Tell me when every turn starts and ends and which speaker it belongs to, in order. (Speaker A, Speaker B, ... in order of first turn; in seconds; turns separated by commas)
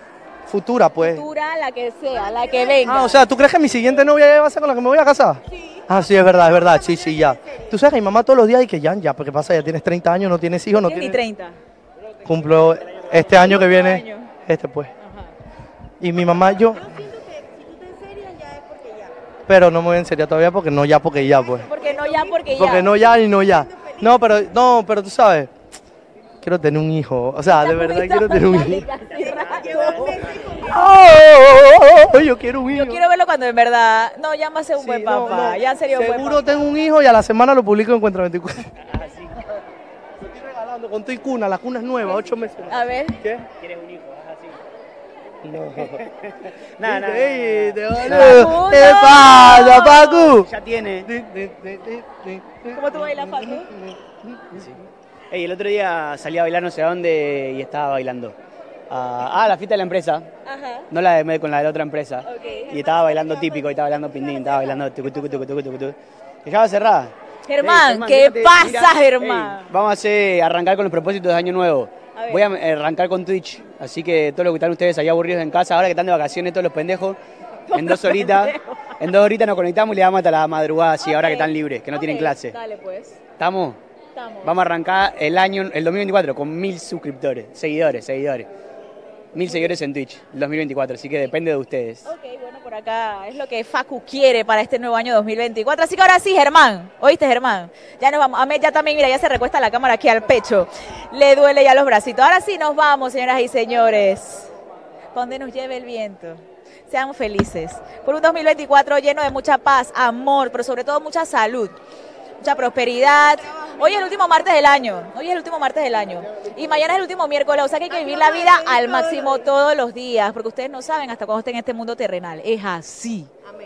Speaker A: 0.5-1.2, Speaker B: 1.0-3.2, Speaker A: 2.9-11.2, Speaker B: 10.8-11.6, Speaker A: 12.2-14.9, Speaker B: 13.3-14.3, Speaker A: 16.0-16.8, Speaker A: 19.5-21.7, Speaker B: 21.7-22.9, Speaker A: 22.5-25.5, Speaker A: 26.4-28.9, Speaker B: 27.6-30.5, Speaker A: 29.7-33.0, Speaker B: 32.7-36.6, Speaker A: 34.8-38.7, Speaker A: 40.2-43.5, Speaker B: 42.7-43.2, Speaker C: 43.6-44.5, Speaker A: 45.4-46.1, Speaker C: 46.8-48.4, Speaker A: 46.8-54.7, Speaker B: 48.0-50.4, Speaker C: 50.4-51.1, Speaker B: 52.7-53.7, Speaker C: 55.3-58.3, Speaker C: 58.9-60.3, Speaker B: 60.5-60.9, Speaker C: 60.9-77.2, Speaker B: 62.2-62.8, Speaker B: 67.5-69.7, Speaker A: 67.7-68.3, Speaker A: 69.2-69.6, Speaker B: 72.2-72.4, Speaker B: 77.7-78.8, Speaker C: 77.7-82.6, Speaker B: 81.0-83.2, Speaker A: 81.1-81.4, Speaker C: 83.4-83.8, Speaker B: 84.2-84.5, Speaker C: 84.4-88.5, Speaker C: 89.3-92.0, Speaker A: 89.5-89.7, Speaker B: 92.0-104.5, Speaker B: 105.1-111.8, Speaker B: 112.4-123.3